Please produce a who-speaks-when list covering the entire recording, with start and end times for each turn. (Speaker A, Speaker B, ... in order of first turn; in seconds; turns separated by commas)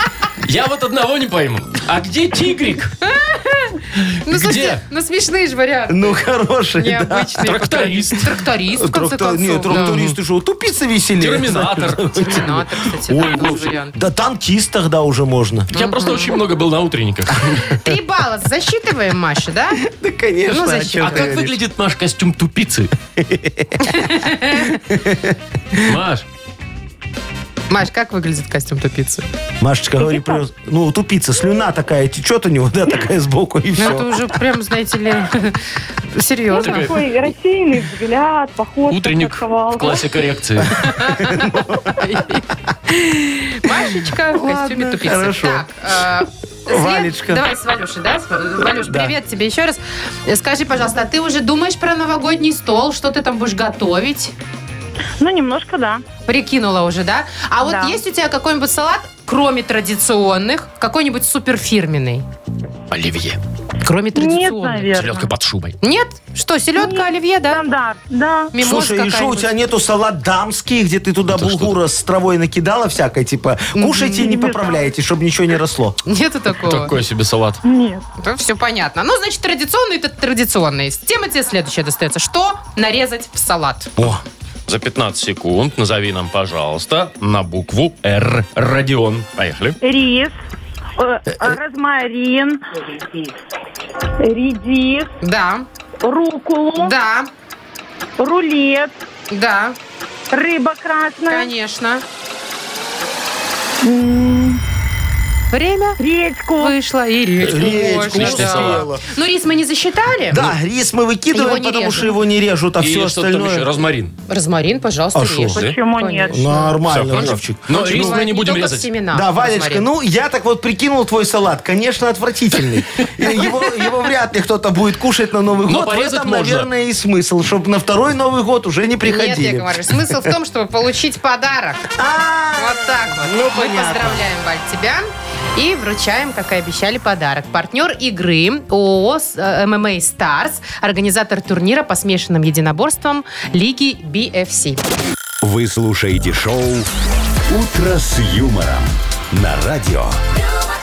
Speaker A: 0.4-2.9, Speaker B: 3.0-6.2, Speaker A: 4.1-4.8, Speaker C: 5.9-7.5, Speaker B: 6.8-10.0, Speaker A: 7.4-8.3, Speaker C: 8.7-15.7, Speaker A: 9.7-10.2, Speaker A: 11.2-12.4, Speaker B: 12.1-13.9, Speaker A: 13.2-13.7, Speaker A: 15.7-17.8, Speaker B: 15.7-16.4, Speaker B: 17.7-19.8, Speaker C: 19.8-21.6, Speaker B: 20.4-21.3, Speaker A: 21.0-22.9, Speaker C: 23.2-25.4, Speaker B: 23.8-24.8, Speaker A: 25.8-26.2, Speaker B: 27.7-29.2, Speaker C: 29.6-34.1, Speaker B: 33.8-36.9, Speaker D: 36.5-40.1, Speaker A: 36.6-37.0, Speaker A: 38.9-40.9, Speaker B: 40.8-54.3, Speaker C: 41.2-41.9, Speaker C: 43.7-45.7, Speaker C: 46.7-47.4, Speaker C: 48.7-49.1, Speaker D: 55.2-56.0, Speaker B: 56.3-62.2, Speaker D: 57.6-58.0, Speaker A: 62.9-63.4, Speaker B: 63.8-65.1, Speaker D: 64.1-65.2, Speaker A: 64.9-65.8, Speaker B: 65.8-67.7, Speaker D: 66.8-68.5, Speaker B: 68.5-69.5, Speaker C: 68.6-76.0, Speaker A: 71.3-71.8, Speaker B: 73.7-74.5, Speaker D: 74.2-74.9, Speaker B: 76.0-76.9, Speaker A: 76.6-77.6, Speaker D: 77.6-78.0, Speaker B: 78.2-83.9, Speaker C: 84.0-84.2, Speaker A: 84.7-89.8, Speaker D: 89.8-90.3, Speaker D: 91.0-92.6, Speaker D: 94.2-95.1, Speaker B: 95.2-95.7, Speaker D: 96.0-96.9, Speaker B: 96.8-97.3, Speaker D: 98.2-98.9, Speaker B: 99.3-99.8, Speaker D: 100.3-101.5, Speaker B: 101.2-102.0, Speaker D: 103.8-104.6, Speaker B: 105.5-106.0, Speaker D: 106.0-106.8, Speaker B: 106.6-110.5, Speaker A: 107.4-108.9, Speaker C: 107.4-109.0, Speaker C: 110.3-113.7, Speaker B: 111.3-112.1, Speaker A: 112.8-114.1, Speaker B: 114.3-116.7, Speaker C: 115.1-115.5, Speaker A: 115.5-115.8, Speaker D: 115.5-116.8, Speaker C: 116.3-118.2, Speaker A: 116.9-118.9, Speaker B: 117.7-119.9, Speaker C: 119.1-130.3, Speaker A: 125.7-126.7, Speaker B: 129.0-131.9, Speaker C: 131.9-134.2, Speaker B: 132.6-144.8, Speaker E: 145.4-146.9, Speaker E: 147.5-150.2